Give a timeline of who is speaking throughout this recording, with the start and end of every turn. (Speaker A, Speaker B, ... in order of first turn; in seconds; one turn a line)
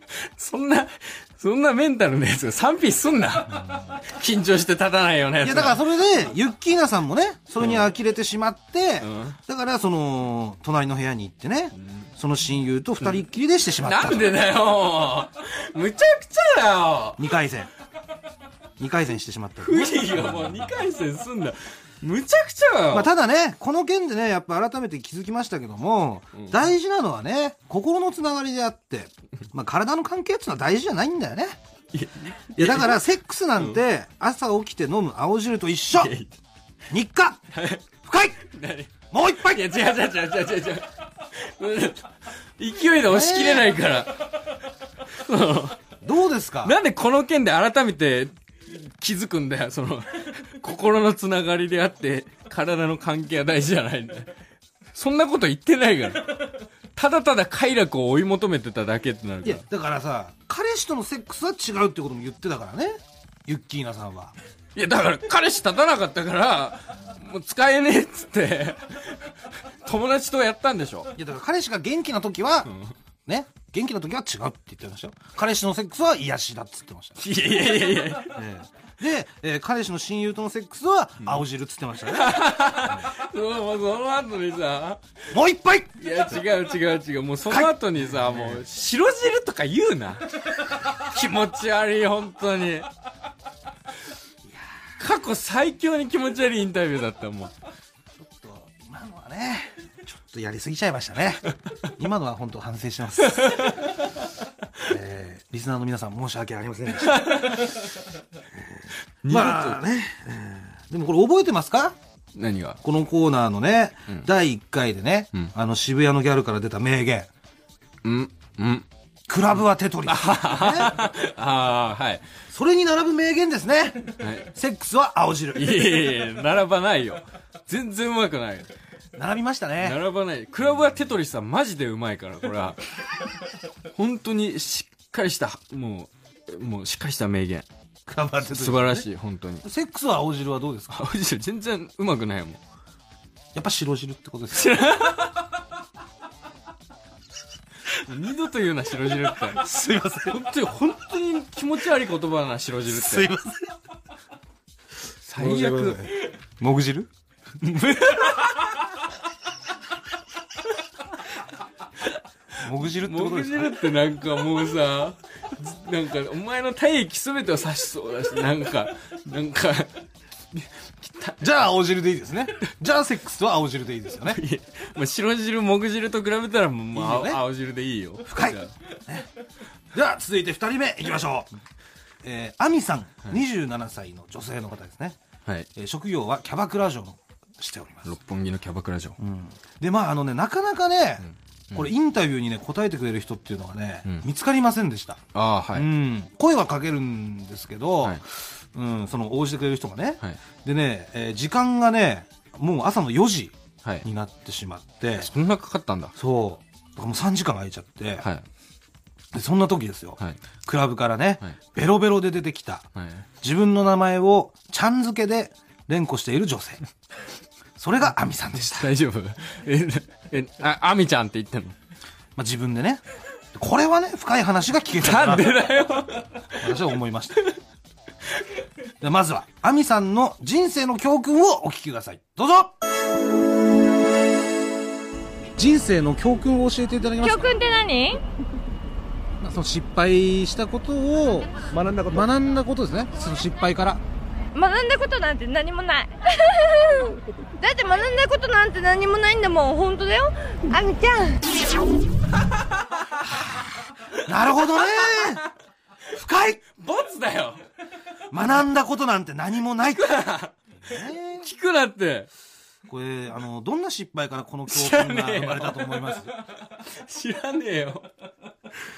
Speaker A: 0.1-5.8
Speaker B: 3.5-4.0
Speaker B: 5.4-14.3
Speaker A: 9.0-9.4
Speaker A: 11.8-12.1
Speaker A: 13.8-17.2
Speaker B: 17.2-17.7
Speaker B: 18.8-20.6
Speaker A: 19.6-23.1
Speaker B: 22.9-31.6
Speaker A: 31.9-33.0
Speaker B: 32.5-36.1
Speaker A: 35.9-36.3
Speaker B: 36.9-37.4
Speaker A: 37.5-37.8
Speaker B: 38.0-38.4
Speaker A: 38.4-44.5
Speaker B: 39.1-39.8
Speaker B: 43.0-43.8
Speaker A: 45.1-45.8
Speaker B: 46.0-46.8
Speaker A: 46.6-54.3
Speaker A: 54.9-59.6
Speaker B: 59.4-64.3
Speaker A: 64.7-69.3
Speaker A: 69.8-71.1
Speaker B: 71.2-72.7
Speaker A: 72.7-72.9
Speaker B: 73.2-77.3
Speaker A: 77.2-78.4
Speaker B: 78.2-83.1
Speaker A: 82.1-85.0
Speaker B: 85.3-86.0
Speaker A: 86.0-92.9
Speaker B: 87.5-88.6
Speaker B: 94.5-94.8
Speaker A: 95.0-97.5
Speaker B: 98.2-103.7
Speaker A: 103.4-103.8
Speaker B: 104.8-107.6
Speaker A: 107.0-107.8
Speaker B: 108.5-112.0
Speaker A: 109.2-109.8
Speaker A: 112.3-112.8
Speaker B: 112.8-117.3
Speaker A: 118.0-118.8
Speaker B: 119.3-121.0
Speaker A: 120.0-122.2
Speaker B: 122.5-126.0
Speaker A: 124.2-124.5
Speaker A: 125.5-128.7
Speaker B: 129.2-130.0
Speaker A: 129.8-132.8
Speaker A: 133.9-137.7
Speaker B: 138.1-139.1
Speaker A: 138.5-139.6
Speaker B: 139.6-141.0
Speaker A: 140.9-142.6
Speaker B: 143.5-144.7
Speaker A: 144.5-145.4
Speaker A: 147.9-153.3
Speaker B: 149.4-150.6
Speaker B: 152.9-153.7
Speaker A: 155.2-156.3
Speaker B: 155.4-157.1
Speaker A: 157.6-158.6
Speaker B: 162.6-163.8
Speaker A: 162.8-171.4
Speaker B: 171.4-174.4
Speaker A: 174.2-178.7
Speaker B: 176.9-177.4
Speaker B: 178.2-179.3
Speaker B: 179.9-181.5
Speaker B: 182.2-185.2
Speaker B: 185.8-188.1
Speaker A: 188.0-189.2
Speaker B: 189.2-205.3
Speaker A: 191.2-191.9
Speaker A: 195.3-195.9
Speaker A: 205.2-206.1
Speaker B: 206.2-208.2
Speaker B: 209.3-212.9
Speaker A: 212.9-213.2
Speaker B: 213.4-216.8
Speaker B: 217.8-218.9
Speaker A: 218.7-221.8
Speaker B: 222.3-223.0
Speaker B: 223.5-225.6
Speaker A: 225.0-226.6
Speaker B: 226.6-227.4
Speaker B: 229.0-232.8
Speaker B: 235.6-237.5
Speaker C: 237.2-238.2
Speaker B: 239.4-244.0
Speaker C: 244.5-251.5
Speaker A: 252.9-253.3
Speaker B: 254.2-255.5
Speaker B: 256.1-256.6
Speaker A: 256.8-257.6
Speaker B: 258.3-260.2
Speaker A: 259.9-260.5
Speaker B: 260.8-261.5
Speaker A: 261.4-262.3
Speaker B: 262.9-266.3
Speaker A: 264.7-268.1